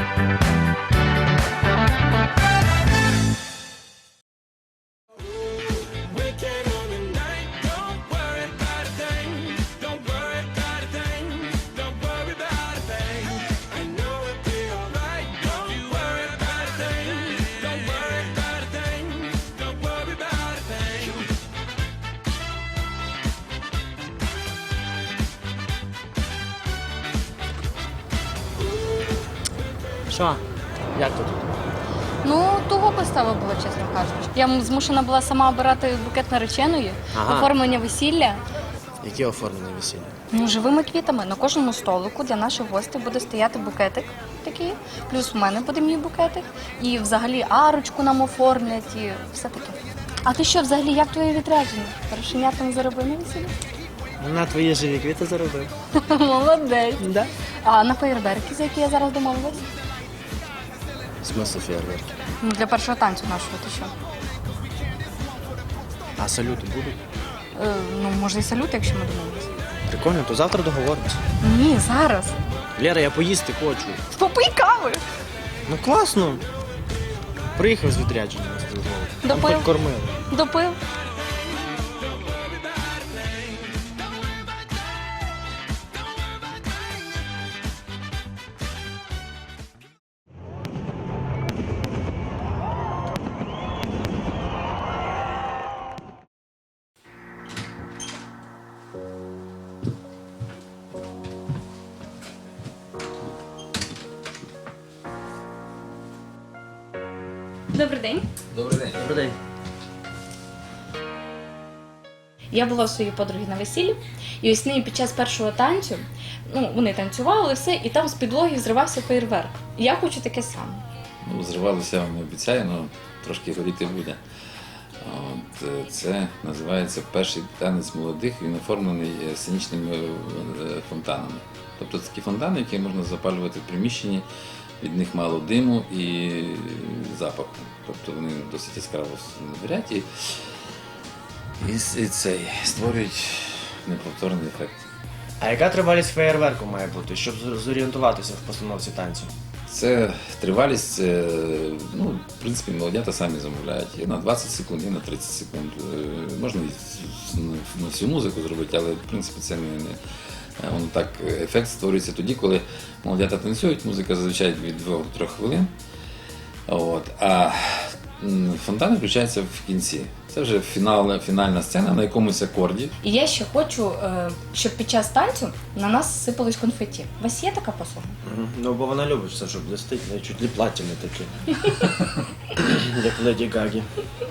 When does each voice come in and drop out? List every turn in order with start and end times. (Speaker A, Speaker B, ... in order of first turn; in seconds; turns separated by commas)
Speaker A: 6.4-8.2, Speaker A: 13.8-15.6, Speaker A: 16.4-16.9, Speaker B: 30.1-30.4, Speaker B: 30.9-31.5, Speaker A: 32.2-38.4, Speaker B: 37.1-37.5, Speaker B: 39.0-40.1, Speaker A: 40.3-53.5, Speaker B: 54.2-55.7, Speaker A: 56.0-57.0, Speaker B: 57.0-57.3, Speaker A: 57.6-59.6, Speaker B: 61.2-62.2, Speaker A: 62.4-63.9, Speaker B: 66.2-67.0, Speaker A: 67.5-69.5, Speaker B: 69.9-71.2, Speaker A: 71.4-72.4, Speaker B: 72.8-74.0, Speaker A: 74.1-75.0, Speaker B: 75.7-76.4, Speaker B: 77.5-80.2, Speaker A: 79.2-79.7, Speaker A: 80.3-80.8, Speaker A: 107.7-108.2, Speaker C: 108.5-109.0, Speaker B: 109.0-109.4, Speaker A: 112.5-120.8, Speaker C: 121.2-124.2, Speaker C: 125.0-134.2, Speaker C: 134.8-140.1, Speaker C: 141.6-144.8, Speaker B: 145.4-149.3, Speaker C: 149.7-160.0, Speaker C: 160.6-165.7, Speaker C: 166.7-172.9, Speaker A: 173.0-178.1, Speaker B: 178.2-183.8